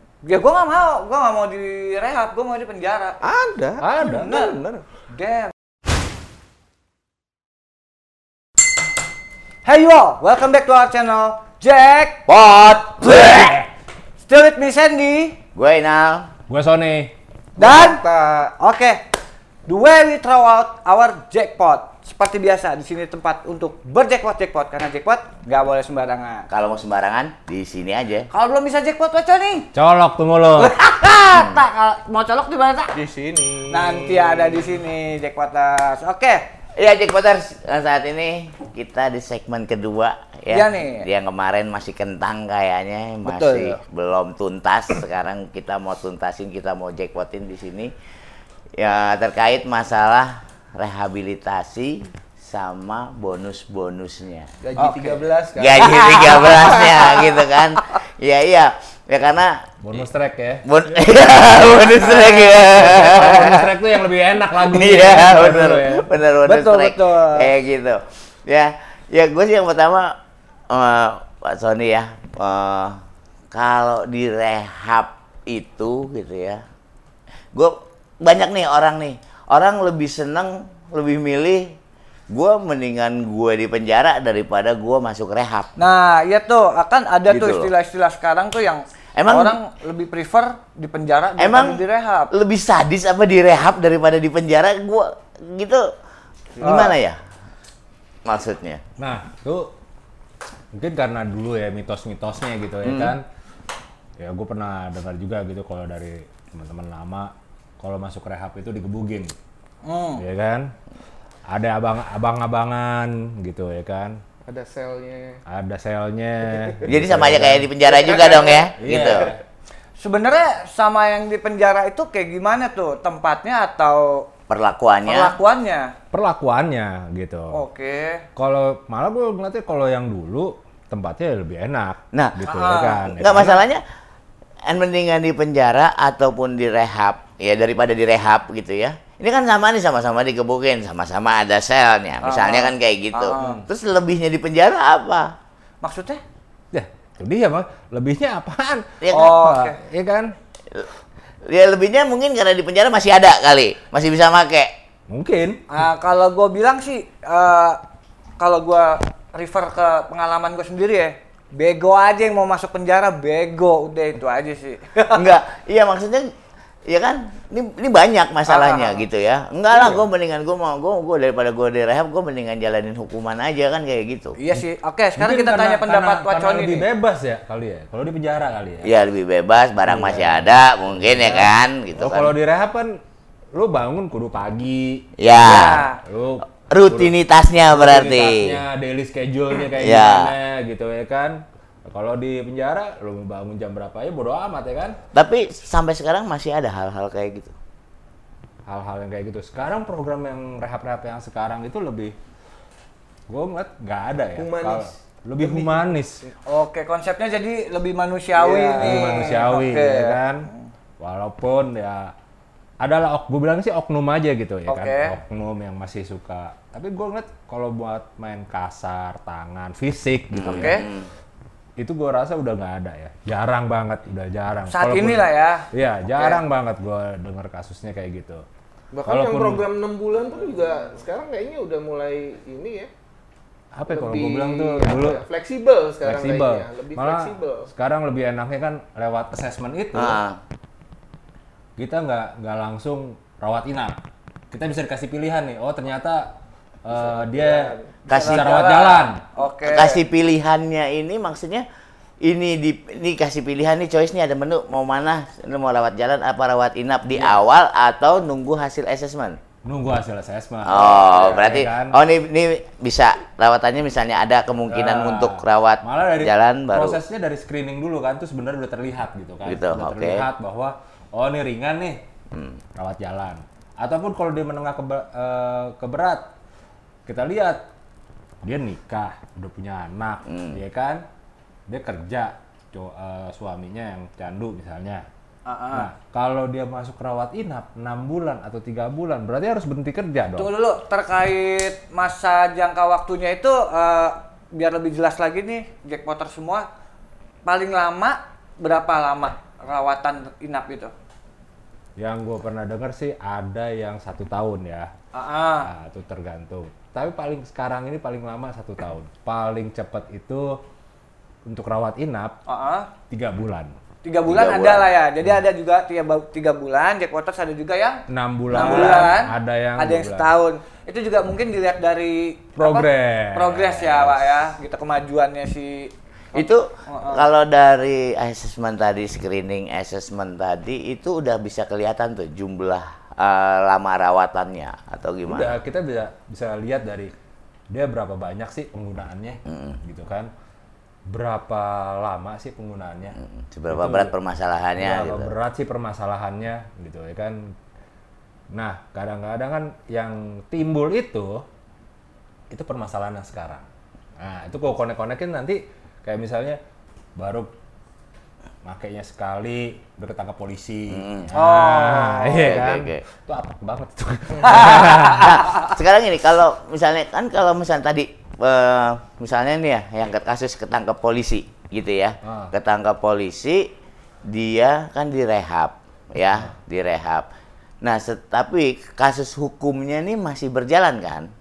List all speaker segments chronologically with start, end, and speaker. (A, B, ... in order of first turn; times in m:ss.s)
0:00.2-0:03.2 A
0:03.2-0:04.8 B
0:03.8-0:04.3 C
0:04.0-0:04.6 A
0:05.1-0:05.5 A
0:09.6-0:12.3 A
0:12.3-0:13.6 D
0:14.2-0:15.4 A
0:15.6-0:16.3 D
0:16.5-0:17.1 C
0:17.6-0:18.5 B
0:17.6-0:18.0 A
0:18.6-0:19.0 A
0:19.7-0:26.5 A
0:26.5-0:28.3 D
0:28.3-0:29.7 A
0:29.7-0:30.7 C
0:30.6-0:33.0 A
0:31.3-0:31.6 D
0:32.9-0:34.7 B
0:33.7-0:36.5 A
0:36.7-0:47.9 D
0:40.5-0:41.0 A
0:43.3-0:43.8 A
0:48.8-0:54.5 D
0:54.6-0:57.1 B
0:54.8-0:55.2 C
0:55.6-1:00.0 D
0:56.3-0:57.3 A
0:59.8-1:06.1 C
1:00.6-1:03.7 D
1:04.6-1:10.2 D
1:06.4-1:07.5 A
1:10.7-1:13.0 D
1:13.5-1:16.6 D
1:17.5-1:21.7 D
1:22.3-1:25.7 D
1:25.8-1:32.3 A
1:27.3-1:27.7 D
1:29.2-1:29.6 D
1:31.4-1:35.9 D
1:36.6-1:36.9 B
1:36.6-1:37.2 D
1:38.2-1:38.8 D
1:39.0-1:39.7 C
1:40.8-1:43.2 C
1:42.8-1:43.2 D
1:44.2-1:49.3 C
1:49.8-1:50.2 A
1:50.2-1:50.7 C
1:51.5-1:54.2 C
1:54.5-1:55.4 B
1:55.5-1:57.7 C
1:56.6-1:56.9 B
1:56.8-1:59.3 D
1:57.8-1:59.3 B
1:58.8-1:59.4 C
2:00.0-2:04.3 A
2:04.5-2:05.4 D
2:05.0-2:05.9 A
2:06.1-2:07.6 C
2:07.5-2:08.2 A
2:08.3-2:13.6 C
2:12.1-2:12.4 D
2:12.4-2:13.1 A
2:13.2-2:13.8 D
2:14.7-2:25.3 D
2:22.2-2:23.6 A
2:23.4-2:23.6 C
2:25.8-2:26.2 A
2:26.7-2:30.3 C
2:29.0-2:29.4 D
2:29.1-2:29.8 A
2:31.5-2:34.7 D
2:35.1-2:35.8 C
2:35.7-2:37.8 A
2:38.4-2:45.3 A
2:45.1-2:46.3 D
2:46.9-2:54.4 D
2:48.5-2:49.0 A
2:54.4-2:56.8 A
2:55.2-2:58.9 C
2:58.8-3:02.3 D
2:59.8-3:03.0 C
3:03.5-3:05.1 C
3:05.2-3:05.8 D
3:05.4-3:06.0 A
3:06.0-3:07.1 C
3:06.7-3:08.6 D
3:07.7-3:15.0 C
3:09.8-3:10.3 D
3:15.1-3:17.6 D
3:18.7-3:22.2 C
3:23.3-3:26.2 C
3:24.4-3:25.9 B
3:26.5-3:30.7 A
3:28.4-3:29.6 B
3:28.8-3:30.5 C
3:31.0-3:32.1 C
3:32.8-3:40.9 C
3:34.7-3:35.2 A
3:40.3-3:41.1 D
3:40.4-3:40.9 A
3:41.8-3:48.4 C
3:44.7-3:46.4 A
3:48.9-3:52.9 B
3:49.1-3:49.7 C
3:53.7-3:55.2 C
3:53.9-3:57.7 B
3:56.0-4:00.2 C
3:59.9-4:00.4 D
4:01.8-4:04.0 C
4:04.5-4:09.2 C
4:06.9-4:07.9 B
4:08.1-4:08.5 D
4:08.1-4:10.0 A
4:09.6-4:11.6 D
4:12.2-4:19.4 D
4:19.6-4:22.0 C
4:20.6-4:27.0 D
4:24.7-4:32.0 C
4:29.4-4:30.2 D
4:32.3-4:32.6 D
4:32.8-4:36.2 C
4:37.1-4:37.6 C
4:38.4-4:41.0 C
4:40.3-4:40.6 D
4:41.7-4:45.0 C
4:45.4-4:45.9 A
4:45.7-4:50.5 C
4:50.4-4:56.7 A
4:57.4-5:00.9 A
5:02.0-5:04.9 C
5:05.1-5:05.7 A
5:05.6-5:10.6 C
5:11.4-5:12.4 C
5:12.4-5:12.9 A
5:13.1-5:13.8 C
5:14.0-5:27.2 A
5:14.3-5:14.9 D
5:18.1-5:20.3 C
5:18.6-5:18.9 D
5:22.6-5:24.5 C
5:26.4-5:35.6 D
5:35.3-5:37.1 C
5:37.7-5:40.3 C
5:39.5-5:39.8 D
5:41.1-5:43.2 C
5:43.2-5:45.3 D
5:43.7-5:44.1 C
5:44.8-5:47.5 C
5:48.5-5:51.4 C
5:52.5-5:53.7 C
5:54.2-5:56.6 C
5:57.2-5:57.5 C
5:58.6-6:05.4 C
6:00.9-6:01.3 D
6:01.3-6:02.4 A
6:02.4-6:03.0 D
6:04.4-6:13.7 D
6:12.2-6:12.5 C
6:14.2-6:17.3 D
6:17.8-6:21.3 D